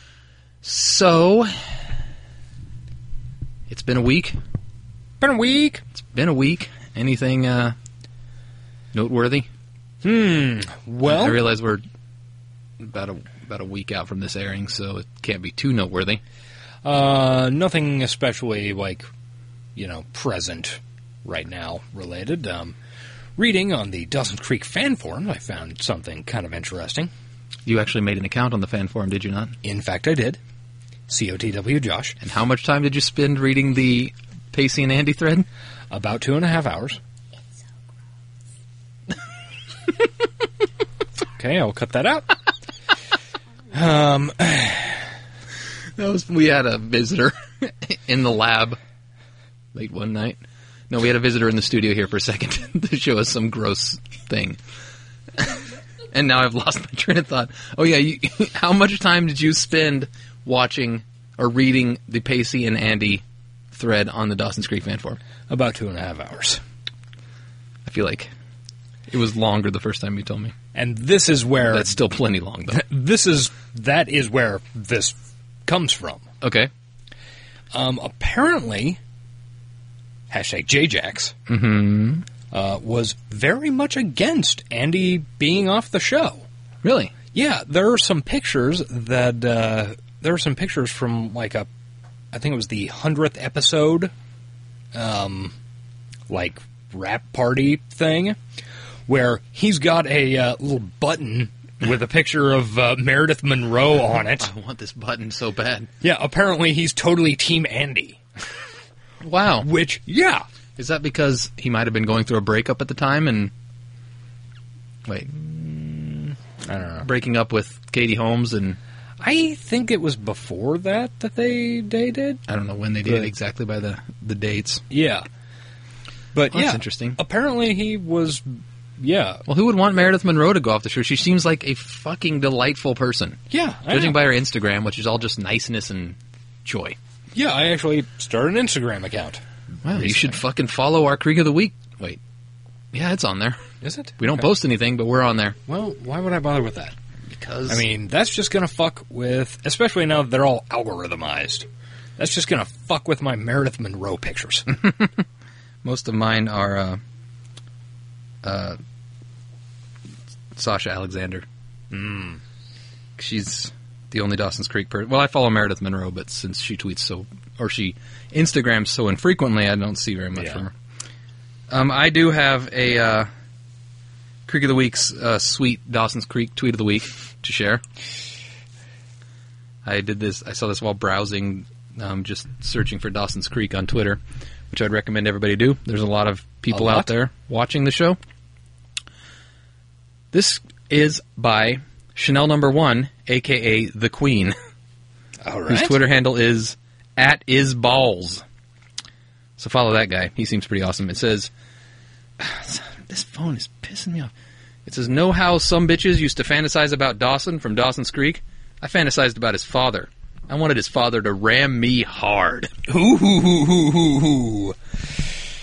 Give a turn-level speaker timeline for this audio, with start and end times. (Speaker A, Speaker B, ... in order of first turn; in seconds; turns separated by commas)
Speaker A: 0.6-1.8, Speaker A: 3.7-4.4, Speaker B: 5.2-5.8, Speaker A: 6.0-7.8, Speaker A: 8.9-9.5, Speaker B: 10.0-11.5, Speaker A: 11.0-11.8, Speaker A: 12.8-16.2, Speaker B: 16.8-19.1, Speaker B: 19.7-22.8, Speaker B: 23.4-27.1, Speaker A: 27.6-29.6, Speaker B: 29.6-30.4, Speaker B: 31.1-32.2, Speaker A: 32.2-35.5, Speaker B: 35.9-37.0, Speaker B: 41.4-42.4, Speaker B: 43.7-45.0, Speaker A: 46.0-48.8, Speaker A: 49.7-54.6, Speaker A: 55.3-65.2, Speaker B: 65.5-66.6, Speaker A: 67.8-68.3, Speaker A: 69.1-70.5, Speaker B: 70.7-72.0, Speaker A: 71.6-72.8, Speaker B: 72.7-76.3, Speaker A: 76.4-76.7, Speaker B: 77.7-79.0, Speaker B: 80.3-81.3, Speaker A: 81.5-82.3, Speaker B: 82.5-86.5, Speaker A: 86.8-87.1, Speaker B: 87.3-91.7, Speaker B: 92.3-94.1, Speaker B: 94.9-95.5, Speaker B: 96.3-98.4, Speaker B: 99.1-104.5, Speaker A: 104.3-105.9, Speaker B: 106.0-108.2, Speaker A: 109.2-109.7, Speaker B: 109.6-110.4, Speaker A: 110.8-113.5, Speaker B: 115.3-117.1, Speaker A: 117.0-118.8, Speaker B: 119.2-122.4, Speaker A: 122.5-124.8, Speaker B: 123.0-123.3, Speaker B: 124.9-125.2, Speaker B: 126.3-129.4, Speaker A: 126.5-127.2, Speaker A: 129.5-137.0, Speaker B: 133.5-134.2, Speaker B: 137.3-140.4, Speaker A: 139.8-142.2, Speaker A: 142.9-143.6, Speaker B: 143.8-144.5, Speaker A: 144.2-145.6, Speaker B: 145.7-146.9, Speaker A: 147.3-147.8, Speaker B: 147.7-154.7, Speaker A: 154.7-155.2, Speaker A: 155.8-157.0, Speaker A: 158.4-158.8, Speaker A: 160.5-161.4, Speaker B: 161.9-162.4, Speaker A: 163.2-170.7, Speaker B: 170.3-170.6, Speaker A: 171.7-173.3, Speaker A: 174.5-177.8, Speaker A: 179.8-188.2, Speaker B: 186.7-187.1, Speaker A: 190.3-194.6, Speaker B: 195.4-196.0, Speaker A: 195.7-198.4, Speaker A: 199.6-201.5, Speaker A: 202.4-204.3, Speaker A: 204.8-212.7, Speaker B: 212.9-214.8